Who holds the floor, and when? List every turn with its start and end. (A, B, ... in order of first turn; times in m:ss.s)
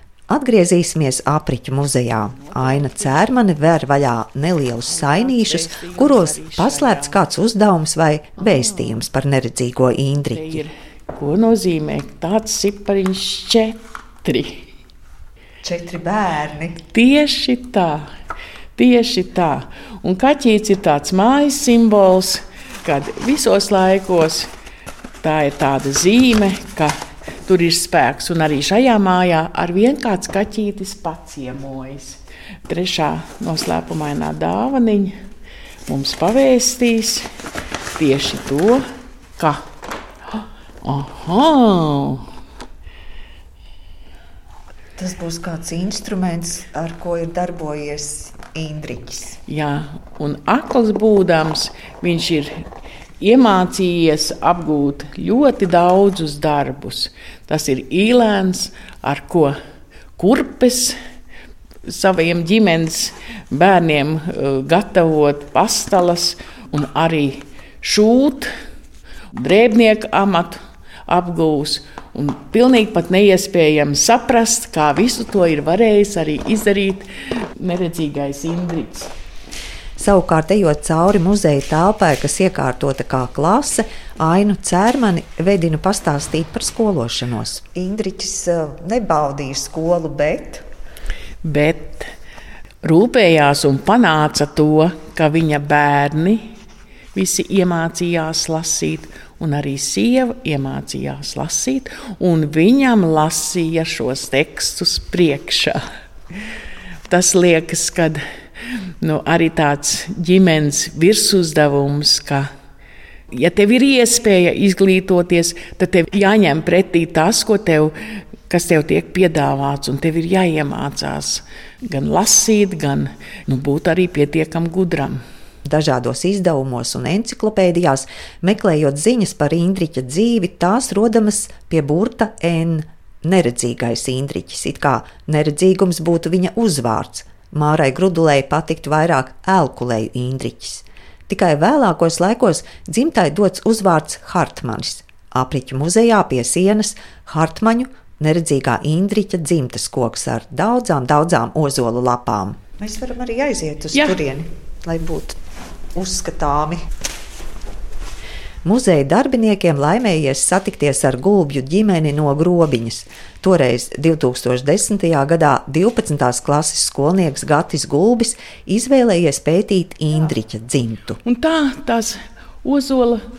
0:00.3-0:10.6 A
0:02.2-0:03.3 B
0:04.8-0:07.2 B
0:08.4-0:09.0 B
0:10.3-0:14.6 B
0:15.6-0:16.8 A
0:16.9-0:18.1 B
0:18.8-0:24.5 B
0:25.2-0:35.2 B
0:35.9-0:37.3 B
0:38.0-0:38.8 B
0:39.4-0:39.6 B
0:40.8-0:42.2 B
0:45.0-0:49.4 A
0:49.5-0:52.6 B
0:53.2-0:59.6 B
1:00.2-1:00.9 B
1:01.8-1:08.5 B
1:09.3-1:17.0 B
1:17.6-1:19.1 B
1:20.0-1:30.6 A
1:31.4-1:32.1 B
1:32.8-1:36.5 B
1:37.1-1:45.8 B
1:47.1-1:48.2 B
1:49.0-1:52.5 B
1:53.3-1:57.9 B
1:58.5-2:05.2 B
2:05.6-2:35.4 A
2:33.9-2:34.2 B
2:35.9-2:36.8 A
2:38.6-2:51.2 A
2:51.2-2:53.2 B